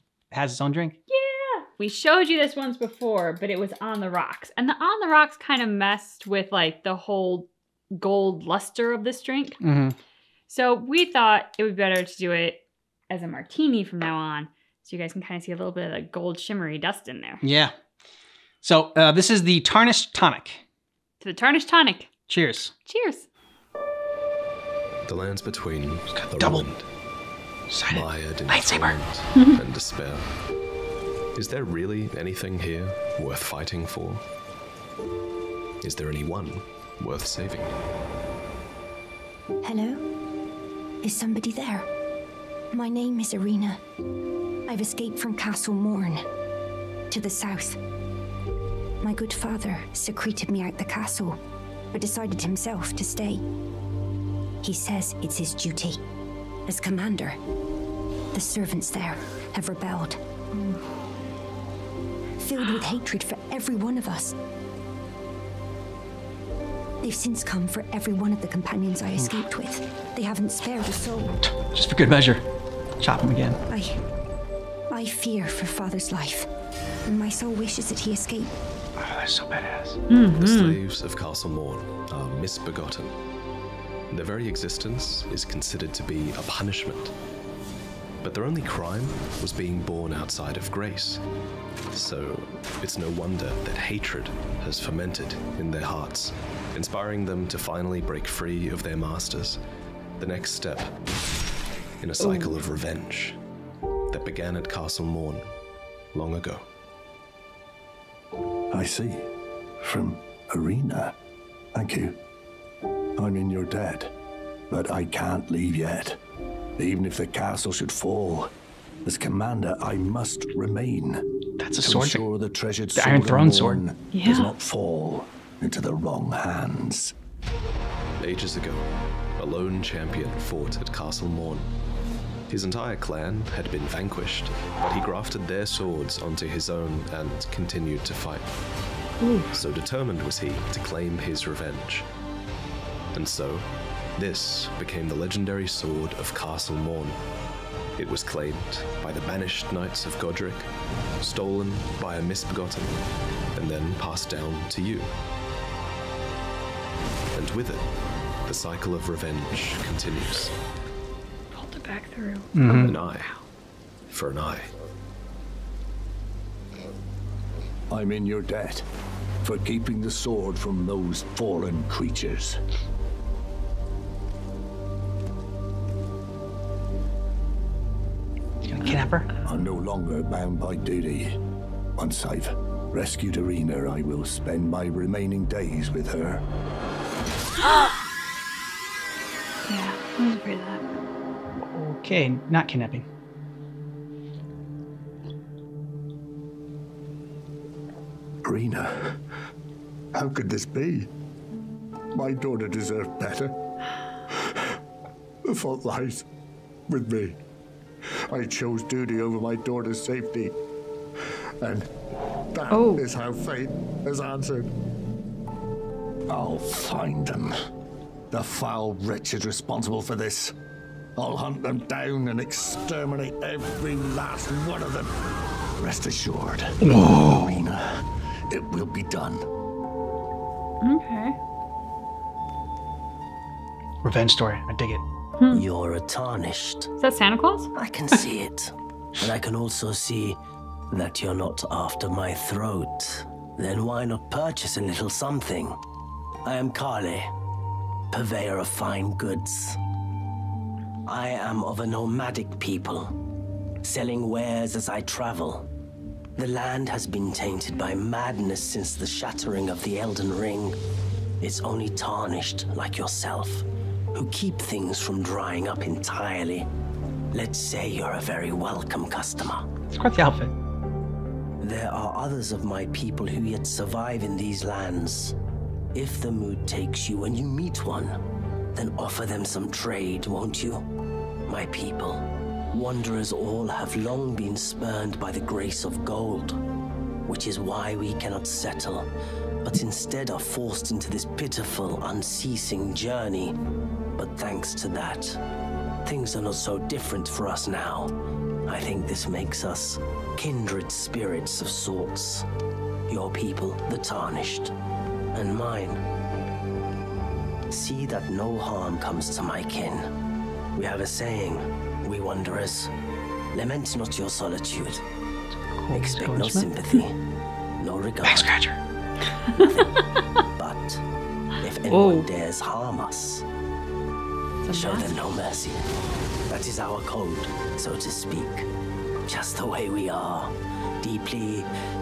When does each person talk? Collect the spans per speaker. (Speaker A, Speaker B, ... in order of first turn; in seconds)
Speaker A: 0.3-0.9, 9.6-9.9, 17.4-17.7, 18.6-20.6, 22.3-22.7, 26.1-26.6, 27.7-28.9, 69.2-69.4, 71.4-72.4, 73.0-73.6, 79.0-80.0, 121.6-122.2, 123.0-123.8, 162.5-162.9, 178.6-179.3, 191.6-193.1, 226.8-227.4, 234.0-235.0, 269.9-270.5, 315.7-316.7, 318.2-318.8
Speaker B: 1.1-9.6, 10.5-17.4, 21.2-22.1, 22.9-23.3, 29.3-29.6, 80.1-80.8, 102.2-102.5, 124.1-124.5, 161.5-163.4, 187.6-188.0, 189.7-191.0, 212.7-213.0, 230.8-231.3, 235.4-235.6, 237.0-237.7, 321.9-322.3, 324.6-325.1
Speaker C: 25.1-26.9, 27.9-30.3, 31.3-34.2, 35.8-37.8, 80.4-83.2, 84.1-87.1, 88.2-91.2, 91.9-99.6, 100.2-100.9, 102.0-103.4, 104.1-105.5, 106.1-106.6, 128.2-128.9, 129.4-131.7, 132.5-138.5, 139.5-142.1, 143.1-147.2, 148.0-150.7, 151.2-153.0, 153.5-155.1, 157.3-157.9, 158.4-160.5, 162.7-163.3, 164.1-164.7
Speaker D: 39.6-40.0, 41.0-41.9, 42.7-43.8, 44.7-46.2, 47.1-47.8, 49.0-51.4, 51.9-53.4, 54.6-56.0, 56.7-57.4, 58.3-60.8, 62.4-64.3, 67.0-71.3, 73.7-74.0, 74.9-76.5, 77.0-78.5
Speaker E: 108.7-109.3, 109.8-111.2, 111.7-112.2, 113.2-114.1, 114.7-116.2, 116.8-118.5, 119.0-121.2, 121.8-127.1, 167.9-168.9, 169.4-172.6, 179.4-181.4, 182.0-186.4, 198.4-199.2, 200.1-201.1, 202.1-203.6, 204.3-204.6, 205.4-206.2, 206.9-207.4, 208.3-210.6, 211.6-211.9, 212.5-214.7, 216.3-217.5, 218.3-220.5, 221.2-225.1, 225.8-229.4
Speaker F: 235.5-236.9, 237.7-240.4, 240.9-245.8, 246.4-247.3, 248.1-249.8, 251.1-253.2, 253.8-255.7, 256.4-260.8, 261.4-266.7, 267.3-269.7, 271.6-275.3, 275.9-278.2, 278.7-280.8, 281.5-286.6, 287.2-289.1, 289.6-293.6, 294.1-295.4, 296.0-298.1, 298.7-302.5, 303.1-304.7, 305.3-306.0, 307.7-310.1, 310.8-312.9, 313.5-315.0, 315.9-317.2, 317.8-318.5, 319.6-319.9, 320.6-321.0, 321.6-323.4, 324.7-325.8, 326.5-328.7, 329.3-331.7